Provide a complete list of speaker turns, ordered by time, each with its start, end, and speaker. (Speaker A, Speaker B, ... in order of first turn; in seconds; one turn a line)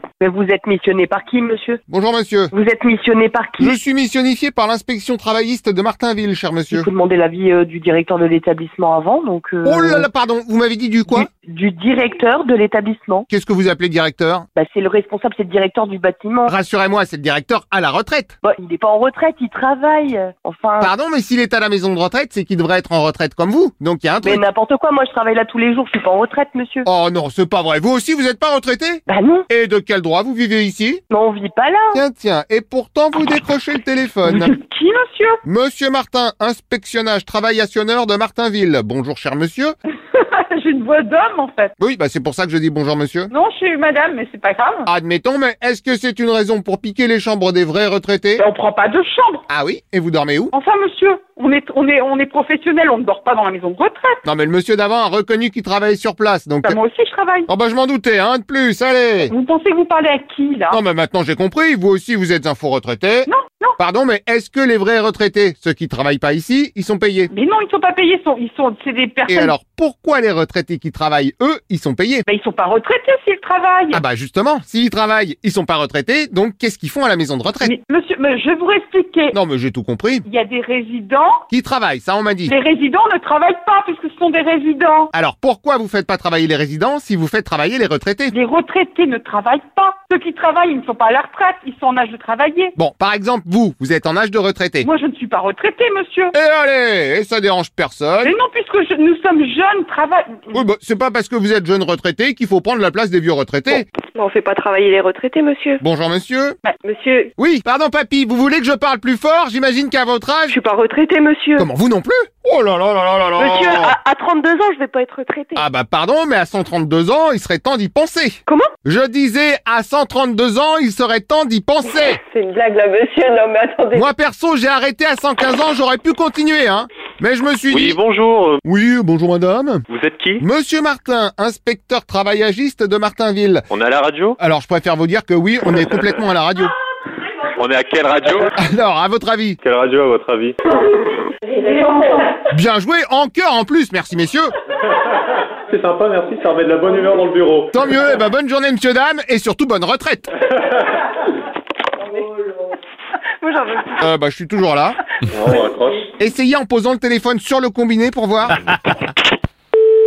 Speaker A: 0.2-1.8
Speaker B: 1.9-2.5
Speaker A: 2.5-3.7
Speaker B: 3.6-6.9
Speaker A: 6.7-10.1
Speaker B: 9.6-11.3
Speaker A: 11.1-13.3
Speaker B: 13.3-14.5
Speaker A: 14.5-16.5
Speaker B: 16.5-18.4
Speaker A: 18.4-20.9
Speaker B: 20.8-24.4
Speaker A: 24.2-26.9
Speaker B: 26.9-31.0
Speaker A: 29.1-29.4
Speaker A: 31.1-32.0
Speaker B: 31.9-34.5
Speaker C: 34.3-35.4
Speaker B: 35.4-39.7
Speaker C: 39.9-41.7
Speaker B: 41.8-43.3
Speaker C: 43.3-44.9
Speaker B: 44.9-48.4
Speaker C: 48.4-49.4
Speaker B: 49.5-50.5
Speaker C: 50.5-54.2
Speaker B: 54.2-56.8
Speaker C: 56.6-57.5
Speaker B: 57.5-59.3
Speaker C: 59.2-60.8
Speaker B: 60.7-67.3
Speaker C: 63.3-63.8
Speaker C: 67.3-69.5
Speaker B: 69.3-72.2
Speaker C: 72.2-74.0
Speaker B: 73.9-77.7
Speaker C: 77.6-79.3
Speaker B: 79.3-80.2
Speaker C: 80.2-81.4
Speaker B: 81.5-82.5
Speaker C: 82.5-85.1
Speaker B: 85.1-88.3
Speaker C: 88.3-92.8
Speaker B: 92.8-94.9
Speaker C: 94.8-96.3
Speaker B: 96.3-98.4
Speaker C: 98.2-100.6
Speaker B: 100.5-103.8
Speaker D: 103.7-105.8
Speaker B: 105.8-106.6
Speaker D: 106.8-107.3
Speaker B: 107.4-110.5
Speaker D: 110.5-111.7
Speaker B: 111.6-114.0
Speaker D: 113.4-115.6
Speaker B: 115.5-122.2
Speaker D: 122.1-124.1
Speaker B: 123.9-128.0
Speaker E: 127.7-128.6
Speaker B: 128.6-129.8
Speaker E: 129.9-130.4
Speaker B: 130.4-133.7
Speaker E: 133.7-134.4
Speaker B: 134.4-136.7
Speaker E: 137.6-138.5
Speaker B: 138.6-139.6
Speaker E: 139.6-140.5
Speaker D: 141.5-142.0
Speaker C: 141.6-142.4
Speaker B: 142.5-144.5
Speaker E: 145.7-147.8
Speaker B: 147.7-150.3
Speaker D: 152.0-152.7
Speaker D: 153.4-154.1
Speaker B: 154.0-155.0
Speaker E: 155.3-156.1
Speaker B: 156.2-158.6